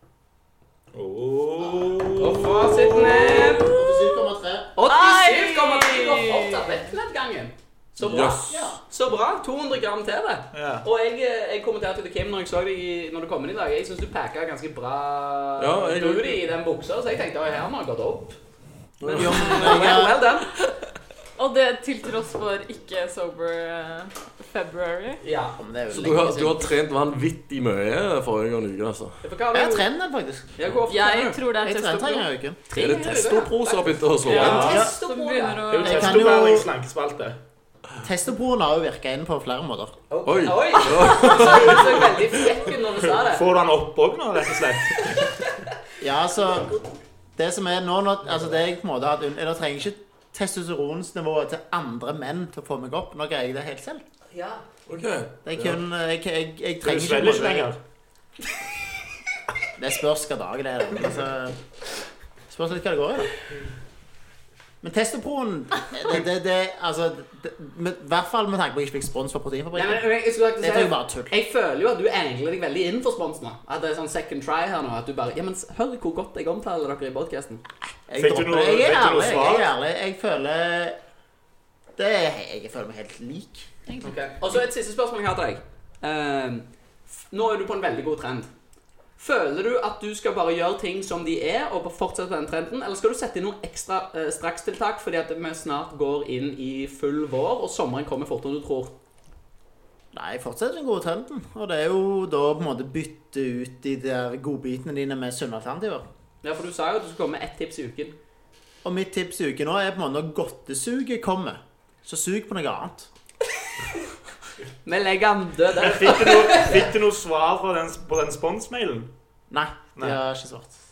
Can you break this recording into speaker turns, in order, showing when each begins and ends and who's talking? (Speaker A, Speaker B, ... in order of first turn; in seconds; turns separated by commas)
Speaker A: 0.9-3.5, Speaker B: 2.2-3.9, Speaker C: 3.2-4.7, Speaker B: 4.8-18.4, Speaker D: 4.8-6.8, Speaker E: 8.0-8.7, Speaker A: 10.5-10.8, Speaker E: 15.6-16.4, Speaker E: 19.0-19.5, Speaker B: 19.0-20.7, Speaker C: 19.1-20.1, Speaker D: 21.4-25.2, Speaker B: 25.2-26.5, Speaker C: 25.6-26.6, Speaker E: 25.9-29.2, Speaker B: 29.2-29.9, Speaker C: 29.5-30.5, Speaker B: 30.6-31.4, Speaker D: 30.9-32.3, Speaker C: 31.6-32.6, Speaker B: 32.7-35.9, Speaker E: 32.7-34.8, Speaker D: 34.2-36.3, Speaker A: 34.4-34.9, Speaker A: 35.7-37.4, Speaker C: 35.8-36.7, Speaker C: 38.0-39.9, Speaker B: 40.1-43.5, Speaker E: 40.2-42.1, Speaker A: 43.1-45.4, Speaker C: 46.0-46.7, Speaker B: 46.5-46.9, Speaker C: 47.4-54.0, Speaker B: 54.3-54.6, Speaker E: 54.9-55.7, Speaker C: 55.4-57.7, Speaker A: 56.8-57.8, Speaker C: 59.8-61.5, Speaker C: 62.5-63.3, Speaker C: 64.8-70.0, Speaker B: 69.7-77.6, Speaker C: 70.6-71.3, Speaker C: 78.1-81.0, Speaker A: 78.2-79.7, Speaker C: 82.0-84.0, Speaker B: 84.0-88.5, Speaker B: 89.2-98.9, Speaker C: 100.1-106.0, Speaker B: 106.4-108.1, Speaker C: 108.8-113.1, Speaker B: 114.8-116.8, Speaker A: 115.7-119.1, Speaker C: 119.5-120.7